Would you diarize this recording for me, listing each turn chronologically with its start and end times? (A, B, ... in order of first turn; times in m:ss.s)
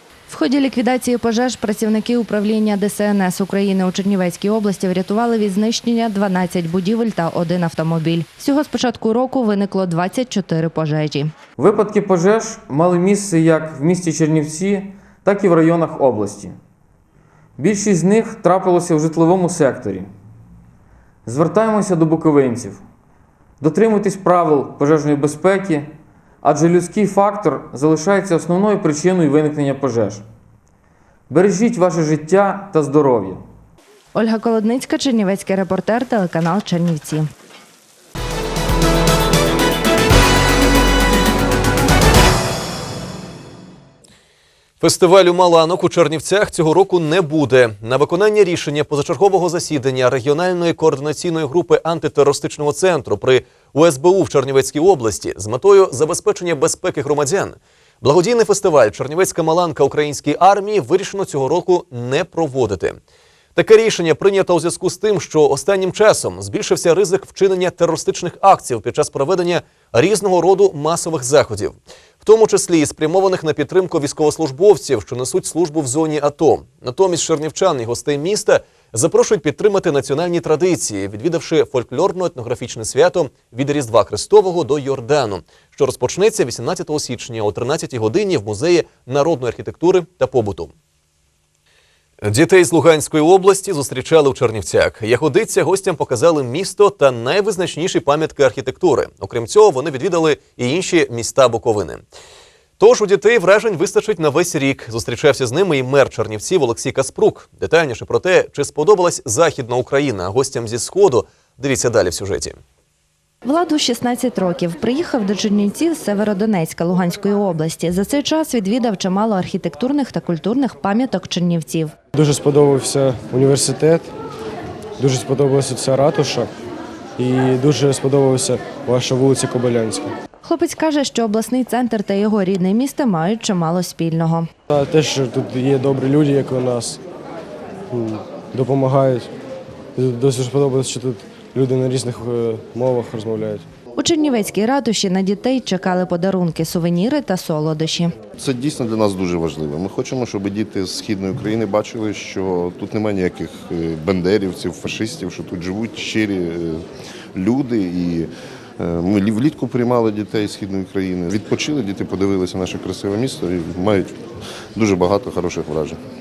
0:00.3-0:11.3 A
0:11.6-0:16.5 B
0:17.6-0:20.1 B
0:21.2-0:22.8 B
0:23.6-0:25.8 B
0:26.4-0:30.2 B
0:31.3-0:33.4 B
0:34.1-0:37.2 A
0:44.8-1:03.0 C
1:03.6-1:30.7 C
1:32.2-1:42.0 C
1:42.8-1:52.6 C
1:53.4-2:02.0 A
2:02.1-2:04.1 D
2:05.0-2:06.5 D
2:07.2-2:10.1 D
2:10.4-2:14.5 A
2:14.7-2:17.0 D
2:17.9-2:19.3 D
2:20.0-2:23.6 D
2:24.0-2:28.1 A
2:28.4-2:36.8 E
2:37.4-2:38.3 E
2:38.8-2:44.1 E
2:44.8-2:46.0 E